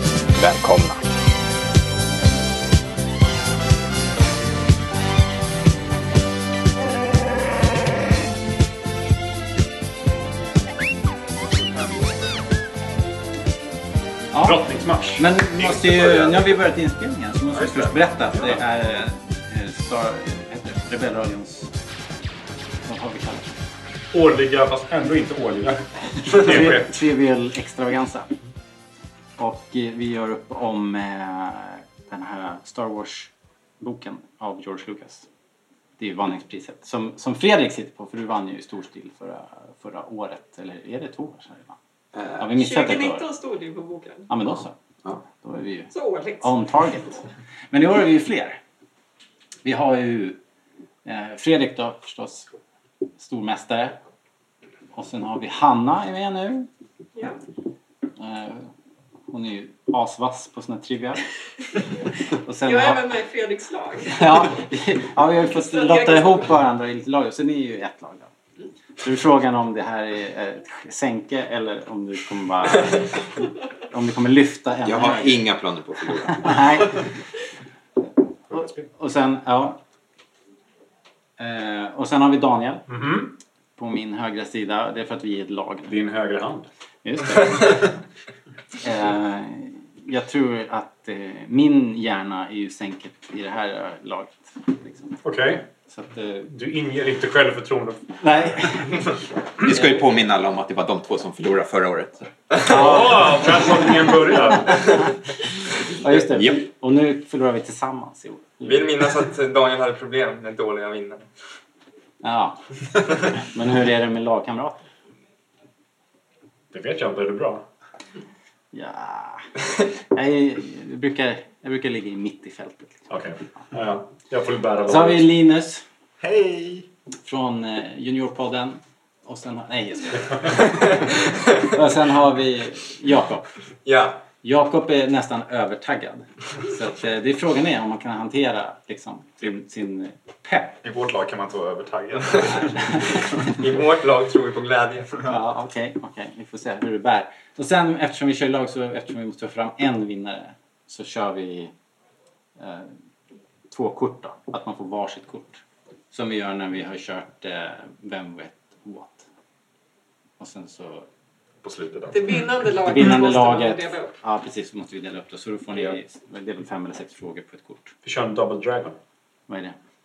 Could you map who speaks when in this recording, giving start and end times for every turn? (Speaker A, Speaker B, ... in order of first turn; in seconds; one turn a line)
Speaker A: 0.4-1.0
Speaker A: 14.3-14.6
Speaker B: 14.4-15.3
Speaker A: 15.2-21.7
Speaker C: 15.6-16.5
Speaker C: 17.5-18.0
Speaker B: 18.3-18.6
Speaker A: 22.9-23.6
Speaker B: 24.1-27.0
Speaker A: 26.2-28.4
Speaker A: 29.4-35.3
Speaker A: 36.0-41.8
Speaker D: 42.1-42.5
Speaker A: 42.4-43.3
Speaker E: 42.6-44.3
Speaker A: 44.3-44.8
Speaker A: 45.3-48.6
Speaker E: 45.9-46.6
Speaker A: 49.6-50.4
Speaker A: 51.0-52.5
Speaker A: 53.2-54.0
Speaker A: 54.9-56.7
Speaker A: 58.2-58.7
Speaker A: 59.3-61.2
Speaker A: 62.4-63.2
Speaker E: 62.6-64.7
Speaker A: 64.1-68.3
Speaker E: 65.5-66.5
Speaker A: 69.0-73.2
Speaker A: 73.9-75.6
Speaker D: 74.8-76.8
Speaker A: 76.3-77.0
Speaker A: 78.5-79.8
Speaker B: 78.5-78.8
Speaker A: 81.4-82.9
Speaker B: 82.9-83.4
Speaker A: 83.8-86.0
Speaker B: 85.9-86.7
Speaker A: 87.0-87.9
Speaker A: 88.8-95.2
Speaker B: 95.2-95.7
Speaker A: 95.9-96.5
Speaker B: 96.5-98.2
Speaker A: 98.2-99.0
Speaker D: 99.6-102.3
Speaker A: 99.7-100.0
Speaker B: 102.6-105.0
Speaker A: 102.7-105.0
Speaker F: 102.7-103.0
Speaker A: 106.0-108.9
Speaker D: 106.0-106.7
Speaker F: 108.6-111.3
Speaker A: 112.2-112.6
Speaker A: 113.2-114.9
Speaker B: 116.7-117.7
Speaker A: 118.7-119.5
Speaker A: 120.1-123.1
Speaker B: 123.1-125.3
Speaker A: 124.8-125.8
Speaker C: 126.2-126.9
Speaker A: 127.2-130.9
Speaker A: 131.6-133.5
Speaker F: 133.8-134.2
Speaker A: 134.4-140.8
Speaker C: 140.8-143.1
Speaker F: 143.4-145.2
Speaker A: 145.2-151.7
Speaker A: 152.6-152.9
Speaker A: 153.7-159.3
Speaker A: 160.4-161.1
Speaker C: 161.6-162.3
Speaker E: 162.1-164.2
Speaker A: 162.8-167.9
Speaker B: 168.0-169.0
Speaker A: 169.5-169.8